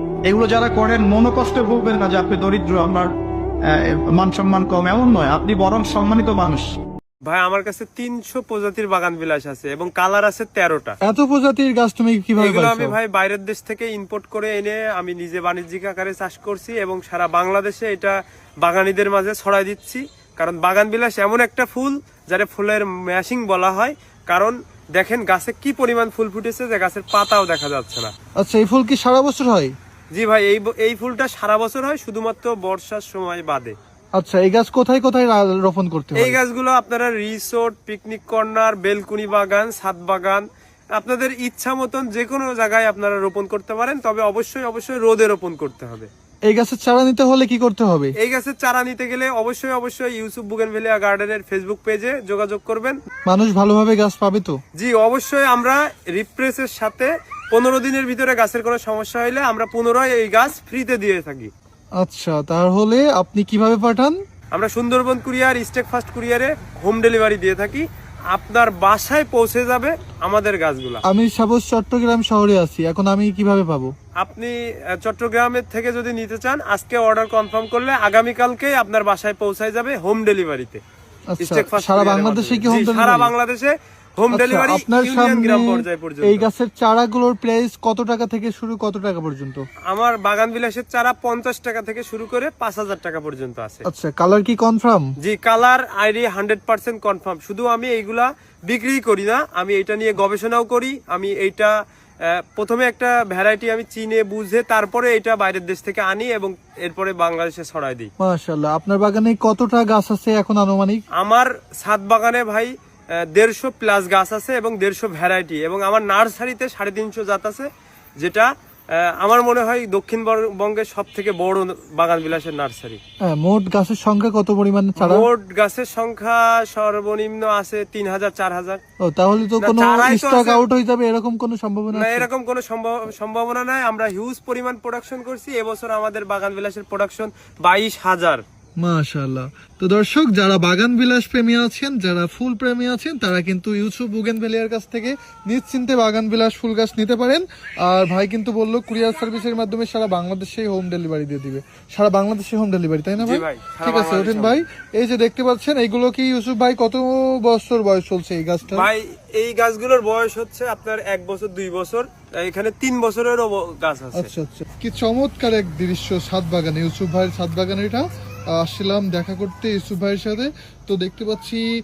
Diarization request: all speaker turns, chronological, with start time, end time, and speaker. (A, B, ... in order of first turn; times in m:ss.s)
0:00.2-0:03.1 A
0:03.6-0:06.7 A
0:07.2-0:11.0 B
0:11.0-0:13.0 C
0:12.4-0:28.1 B
0:28.4-0:29.7 C
0:30.1-0:33.7 B
0:34.2-0:36.4 C
0:36.2-0:40.4 B
0:40.9-0:46.1 B
0:46.5-0:48.1 C
0:48.2-0:53.0 B
0:53.2-0:54.6 C
0:54.8-1:01.5 B
1:02.0-1:04.2 C
1:04.5-1:11.0 B
1:11.0-1:13.9 C
1:14.2-1:20.8 B
1:21.3-1:23.3 C
1:21.4-1:26.4 B
1:24.3-1:29.6 C
1:29.9-1:33.8 B
1:33.8-1:35.1 C
1:35.2-1:41.7 B
1:42.2-1:48.1 B
1:48.2-1:51.0 C
1:51.2-1:52.7 B
1:53.3-1:57.7 B
1:58.2-2:03.0 B
2:03.2-2:05.3 C
2:05.0-2:08.8 B
2:09.0-2:12.3 C
2:09.6-2:10.6 B
2:11.9-2:18.4 B
2:18.8-2:38.9 C
2:33.2-2:34.6 B
2:38.7-2:44.3 B
2:44.1-2:51.6 C